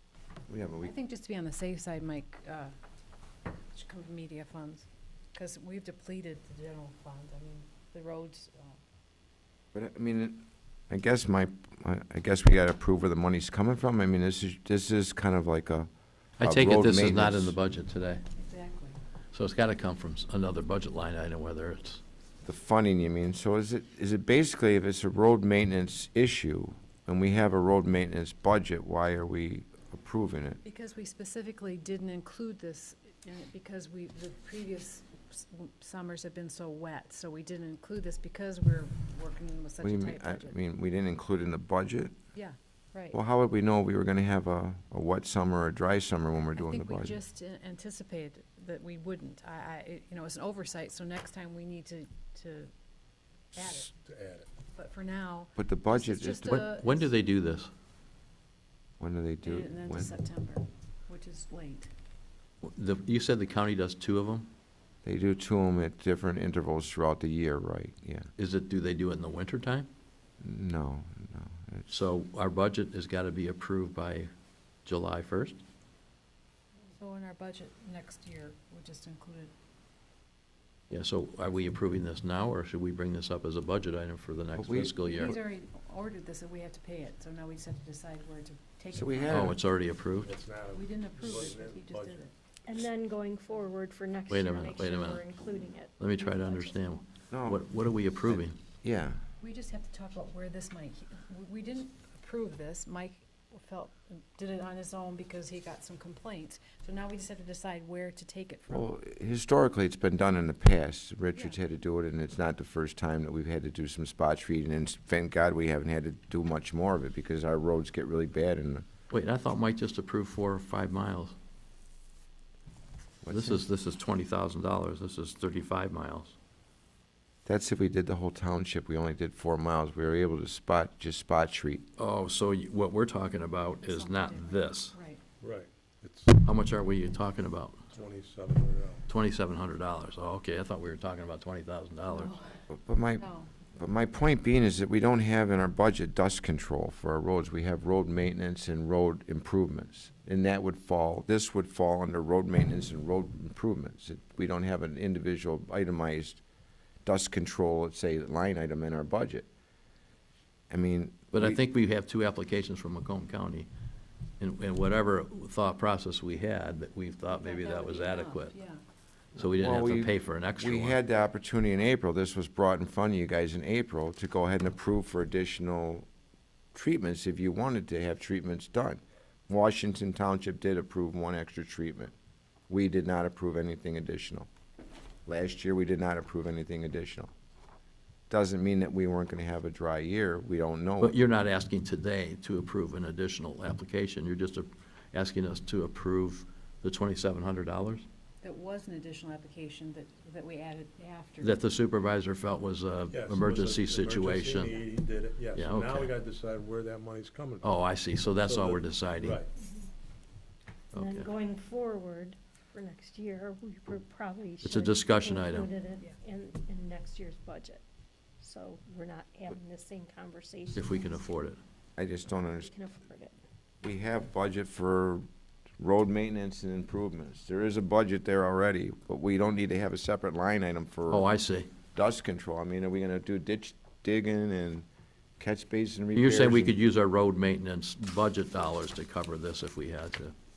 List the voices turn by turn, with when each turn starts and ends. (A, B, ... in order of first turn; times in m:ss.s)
0:00.5-0:00.9 A
0:00.8-0:02.8 B
0:03.7-0:08.8 B
0:09.7-0:17.5 A
0:16.4-0:18.2 C
0:18.4-0:19.0 B
0:19.3-0:22.0 C
0:22.4-0:30.6 A
0:30.6-0:40.6 B
0:39.8-0:42.2 A
0:42.3-0:43.2 B
0:43.1-0:47.2 A
0:46.6-0:52.7 B
0:53.5-0:53.9 B
0:53.6-0:54.5 D
0:54.8-0:57.1 B
0:55.6-0:56.7 A
0:56.8-0:57.7 C
0:59.0-1:00.2 A
0:59.4-1:01.9 B
1:02.6-1:04.5 C
1:05.0-1:08.3 A
1:08.4-1:09.9 C
1:10.4-1:11.9 A
1:11.9-1:14.3 C
1:14.8-1:15.6 C
1:17.0-1:19.5 B
1:20.9-1:25.4 C
1:24.6-1:25.4 A
1:25.1-1:29.6 B
1:28.9-1:29.6 A
1:29.3-1:30.3 C
1:30.2-1:32.3 D
1:30.7-1:32.3 B
1:32.7-1:36.8 E
1:34.3-1:35.3 C
1:36.0-1:38.6 C
1:37.3-1:37.6 A
1:38.3-1:39.2 A
1:39.4-1:48.9 B
1:48.7-1:58.9 A
1:59.1-2:01.3 C
2:03.2-2:03.6 A
2:03.3-2:06.3 C
2:07.4-2:11.8 A
2:12.0-2:14.9 C
2:13.8-2:15.2 B
2:15.4-2:16.4 D
2:16.4-2:17.9 C
2:17.9-2:19.0 D
2:19.1-2:22.3 C
2:22.1-2:22.7 B
2:22.7-2:36.4 A
2:23.2-2:23.5 B
2:37.0-2:39.5 A
2:40.7-2:41.6 A
2:41.3-2:43.7 C
2:44.4-2:48.6 C
2:47.3-2:48.8 B
2:49.3-2:51.0 C
2:49.4-2:56.1 A
2:56.7-3:02.1 A
3:02.7-3:04.5 A
3:05.2-3:07.3 A
3:08.3-3:11.2 A
3:11.0-3:18.1 C
3:18.4-3:21.6 B
3:21.4-3:24.8 C
3:23.1-3:27.8 D
3:25.5-3:26.1 C
3:27.6-3:29.4 C
3:28.4-3:29.5 D
3:30.9-3:31.3 C
3:30.9-3:37.8 E
3:34.6-3:35.7 C
3:38.4-3:41.2 E
3:40.7-3:41.6 C
3:42.0-3:42.7 A
3:42.6-3:43.4 E
3:43.8-3:45.3 A
3:45.8-3:51.3 A
3:51.1-3:51.7 C
3:51.9-3:54.8 A
3:55.4-3:56.8 A
3:56.1-4:00.3 C